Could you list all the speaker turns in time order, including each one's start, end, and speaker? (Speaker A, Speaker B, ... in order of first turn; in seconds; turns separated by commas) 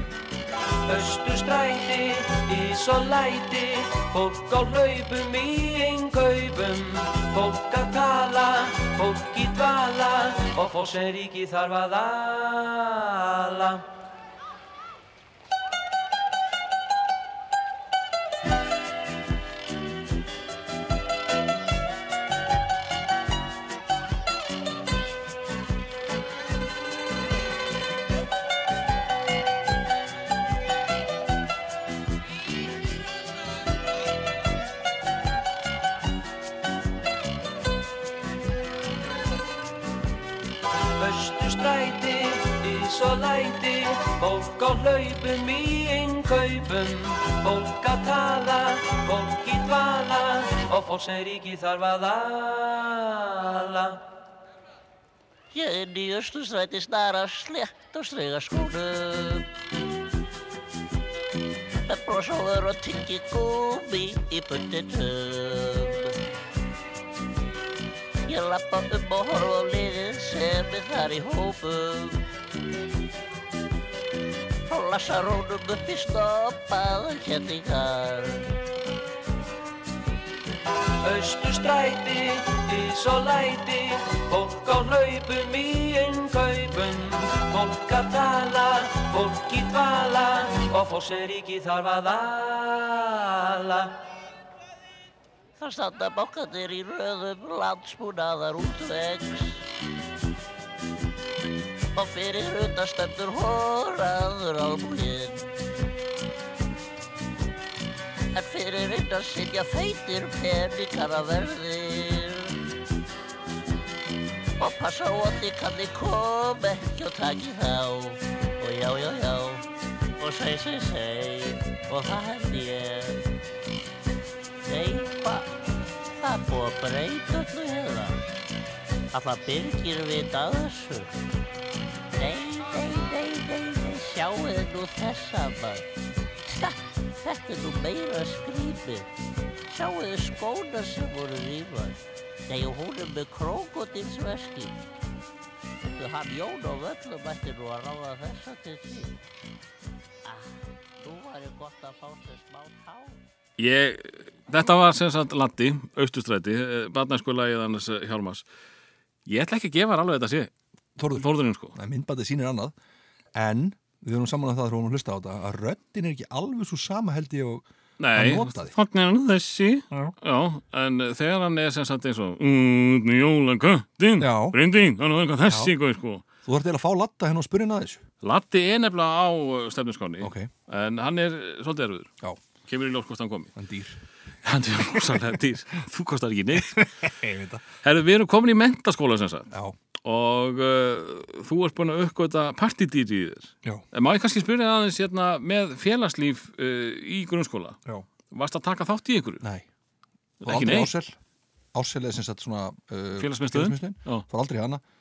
Speaker A: 0.9-13.8, Speaker A: 41.0-54.0, Speaker B: 55.5-59.5, Speaker B: 61.9-66.2, Speaker B: 68.3-72.2, Speaker B: 74.7-78.5, Speaker A: 81.0-94.0, Speaker B: 95.6-99.7, Speaker B: 102.0-105.5, Speaker B: 108.3-112.6, Speaker B: 114.6-119.7, Speaker B: 120.2-123.2, Speaker B: 124.7-125.5, Speaker B: 126.1-128.2, Speaker B: 129.1-131.1, Speaker B: 132.2-135.8, Speaker B: 136.5-139.1, Speaker B: 139.7-144.8, Speaker B: 145.8-149.2, Speaker B: 150.2-153.2, Speaker C: 153.6-158.4, Speaker C: 159.3-160.5, Speaker D: 161.0-162.7, Speaker C: 161.2-161.8, Speaker D: 163.3-168.8, Speaker C: 168.0-176.2, Speaker D: 174.2-174.6, Speaker D: 175.5-175.7, Speaker D: 176.4-178.0, Speaker C: 178.2-182.1, Speaker D: 180.2-180.5, Speaker C: 182.6-183.6, Speaker D: 183.6-184.0, Speaker C: 184.4-186.9, Speaker D: 186.6-187.6, Speaker C: 187.8-189.5, Speaker D: 189.5-189.8, Speaker C: 190.0-197.8, Speaker C: 198.3-199.4, Speaker C: 200.4-200.9, Speaker D: 200.4-201.2, Speaker D: 201.7-204.8, Speaker C: 203.2-204.2